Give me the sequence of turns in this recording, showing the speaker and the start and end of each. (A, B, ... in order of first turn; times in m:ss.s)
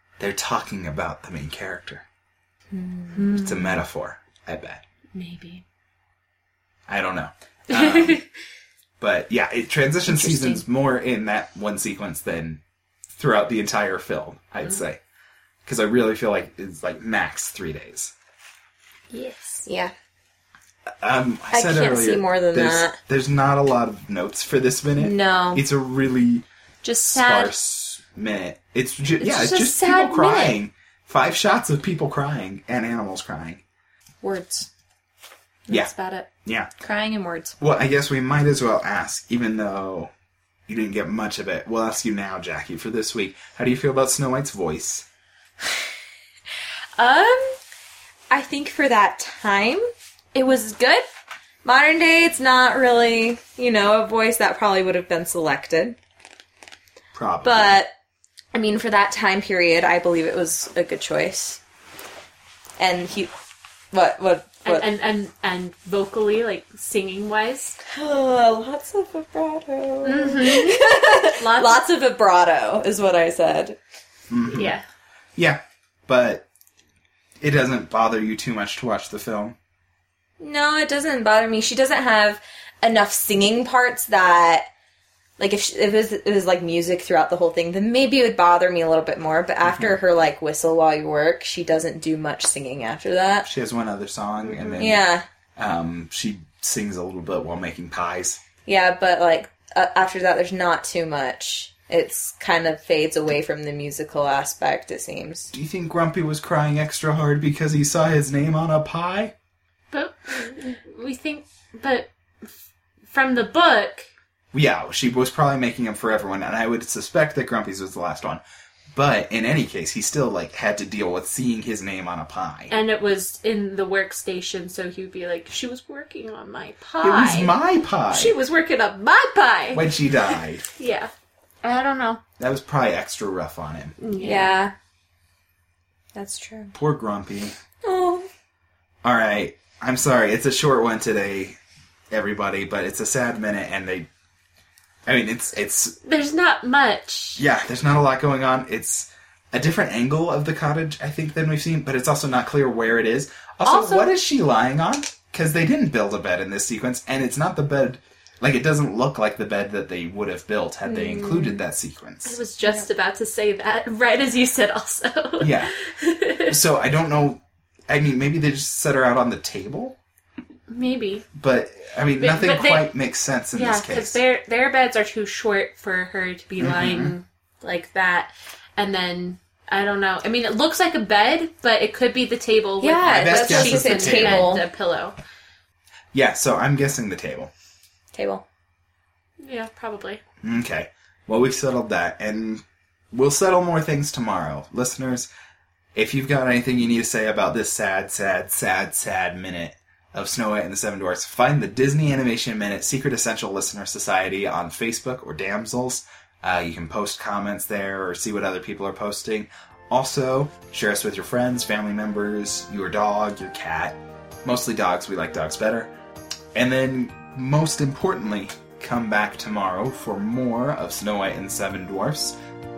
0:00.2-0:02.0 A
0:02.7-0:03.4 B
0:03.1-0:03.8 C
0:03.4-0:04.8 A
0:05.1-0:05.6 C
0:06.9-0:08.2 A
0:07.7-0:08.2 C
0:09.0-0:12.6 A
0:10.0-0:10.6 B
0:13.1-0:15.0 A
0:15.6-0:18.1 A
0:19.1-0:19.6 C
0:19.6-0:19.9 B
0:21.0-0:26.4 A
0:21.5-0:23.0 B
0:25.0-0:25.6 B
0:26.8-0:27.4 B
0:27.0-0:33.6 A
0:27.1-0:27.5 C
0:29.2-0:30.5 B
0:34.2-0:34.7 B
0:35.7-0:36.2 B
0:35.7-0:36.2 C
0:36.4-0:36.7 A
0:36.8-0:37.6 B
0:37.6-0:40.1 A
0:40.7-0:45.0 A
0:47.0-0:47.5 B
0:48.3-0:51.0 B
0:51.6-0:56.0 B
0:57.1-0:57.8 A
0:57.4-0:57.9 B
0:58.5-1:01.6 B
1:02.8-1:03.3 B
1:03.9-1:04.9 B
1:04.6-1:07.8 C
1:07.9-1:13.8 B
1:10.0-1:11.9 C
1:14.3-1:14.8 A
1:14.5-1:14.9 C
1:15.4-1:16.4 A
1:17.4-1:19.6 A
1:20.4-1:24.7 B
1:25.4-1:33.5 B
1:29.6-1:30.0 A
1:33.4-1:35.0 A
1:34.4-1:34.9 C
1:34.8-1:35.2 B
1:35.6-1:38.4 A
1:38.6-1:45.5 B
1:45.5-1:49.3 A
1:49.9-1:52.5 C
1:53.1-1:54.1 C
1:54.5-1:58.4 A
1:58.9-2:02.7 A
2:02.7-2:07.6 C
2:07.0-2:08.4 A
2:08.1-2:11.1 C
2:09.7-2:10.6 A
2:11.6-2:12.2 C
2:12.4-2:14.0 A
2:14.0-2:14.6 C
2:14.2-2:14.7 B
2:16.1-2:16.7 B
2:16.8-2:17.5 A
2:17.8-2:18.3 B
2:19.0-2:21.6 A
2:22.1-2:24.1 A
2:25.0-2:26.0 A
2:26.0-2:27.4 C
2:27.4-2:42.4 A
2:33.6-2:34.2 C
2:40.8-2:41.6 B
2:42.2-2:46.6 C
2:42.6-2:42.9 B
2:45.4-2:45.7 A
2:46.5-2:50.0 A
2:50.7-2:51.2 C
2:51.3-2:54.2 A
2:52.2-2:52.9 C
2:53.5-3:05.2 C
2:56.6-2:57.1 A
3:02.8-3:04.6 B
3:03.2-3:04.6 A
3:06.1-3:07.5 A
3:08.1-3:08.4 B
3:09.4-3:10.2 C
3:10.4-3:15.3 A
3:16.0-3:35.9 A
3:36.5-3:42.4 A